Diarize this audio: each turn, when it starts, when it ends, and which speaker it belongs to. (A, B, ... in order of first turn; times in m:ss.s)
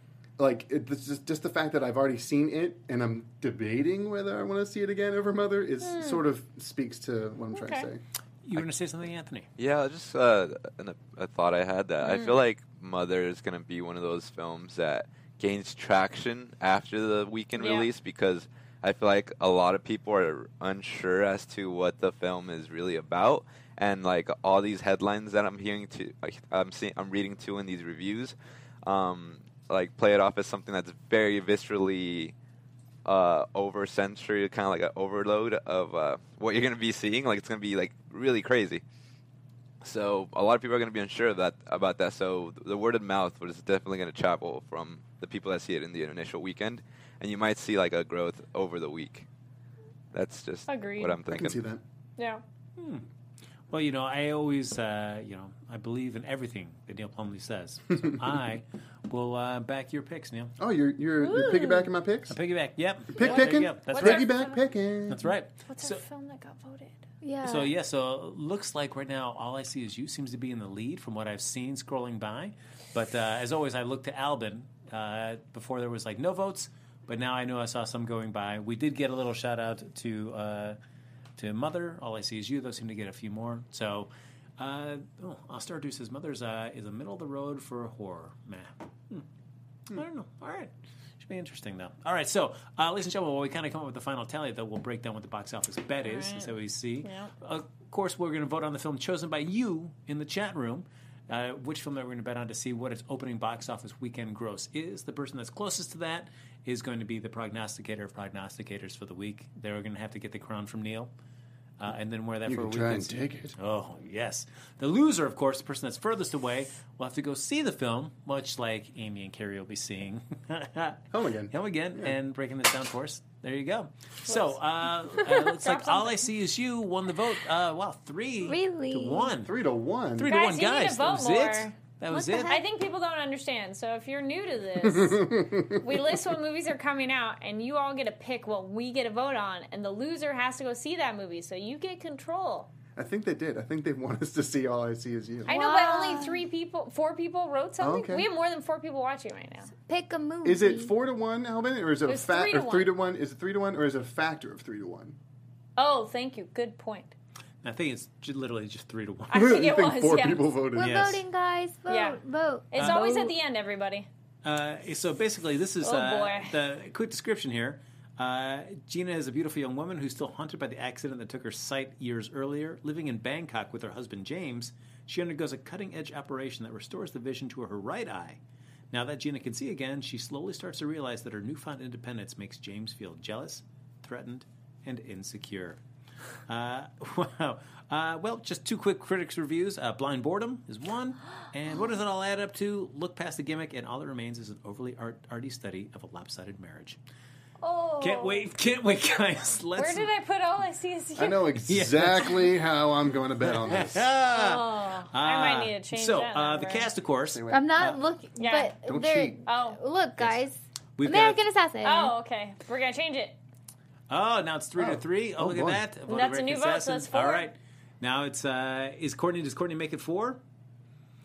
0:00.4-0:08.0 A
0:05.8-0:06.2 B
0:07.5-0:07.9 B
0:08.4-0:09.5 C
0:09.6-0:32.3 D
0:12.0-0:12.4 B
0:17.6-0:17.9 B
0:33.0-0:38.8 D
0:39.8-0:49.2 D
0:50.1-0:51.6 D
0:50.7-0:51.2 B
0:51.3-0:51.8 A
0:52.2-0:52.4 B
0:52.8-0:53.0 C
0:53.7-1:00.5 C
1:00.6-1:02.4 A
1:01.2-1:01.9 B
1:02.3-1:04.3 C
1:03.1-1:05.2 A
1:03.2-1:04.6 B
1:05.1-1:06.0 C
1:05.7-1:07.0 B
1:07.2-1:07.7 E
1:07.4-1:20.8 C
1:21.4-1:29.2 C
1:29.9-1:51.1 C
1:36.0-1:37.3 B
1:51.8-2:09.5 C
1:52.4-1:53.5 A
2:01.1-2:02.1 A
2:04.3-2:04.6 B
2:05.1-2:06.3 B
2:08.4-2:09.3 E
2:09.4-2:10.3 A
2:10.1-2:12.6 C
2:10.3-2:11.7 B
2:12.1-2:12.6 E
2:12.5-2:22.7 B
2:14.8-2:15.9 A
2:23.0-2:25.6 A
2:25.4-2:26.4 E
2:25.5-2:29.7 B
2:27.8-2:28.3 A
2:29.9-2:30.9 E
2:30.4-2:35.2 A
2:32.0-2:32.9 B
2:35.8-2:37.1 B
2:37.6-2:39.6 C
2:39.3-2:40.5 B
2:39.3-2:41.1 A
2:40.7-2:43.3 E
2:40.8-2:41.2 C
2:41.9-2:42.2 B
2:42.7-2:44.1 B
2:42.8-2:43.1 C
2:44.4-2:58.4 C
2:45.8-2:46.6 B
2:58.9-3:05.8 C
3:06.5-3:17.0 C
3:17.6-3:18.4 B
3:18.0-3:20.1 C
3:19.8-3:21.5 B
3:21.2-3:24.1 A
3:21.7-3:22.5 C
3:23.4-3:28.0 C
3:24.3-3:26.9 B
3:27.2-3:27.9 A
3:27.5-3:32.1 E
3:28.4-3:28.8 B
3:28.8-3:29.4 A
3:29.4-3:29.8 B
3:31.0-3:31.4 C
3:31.8-3:33.4 B
3:34.1-3:40.4 C
3:34.8-3:35.8 A
3:36.1-3:37.5 B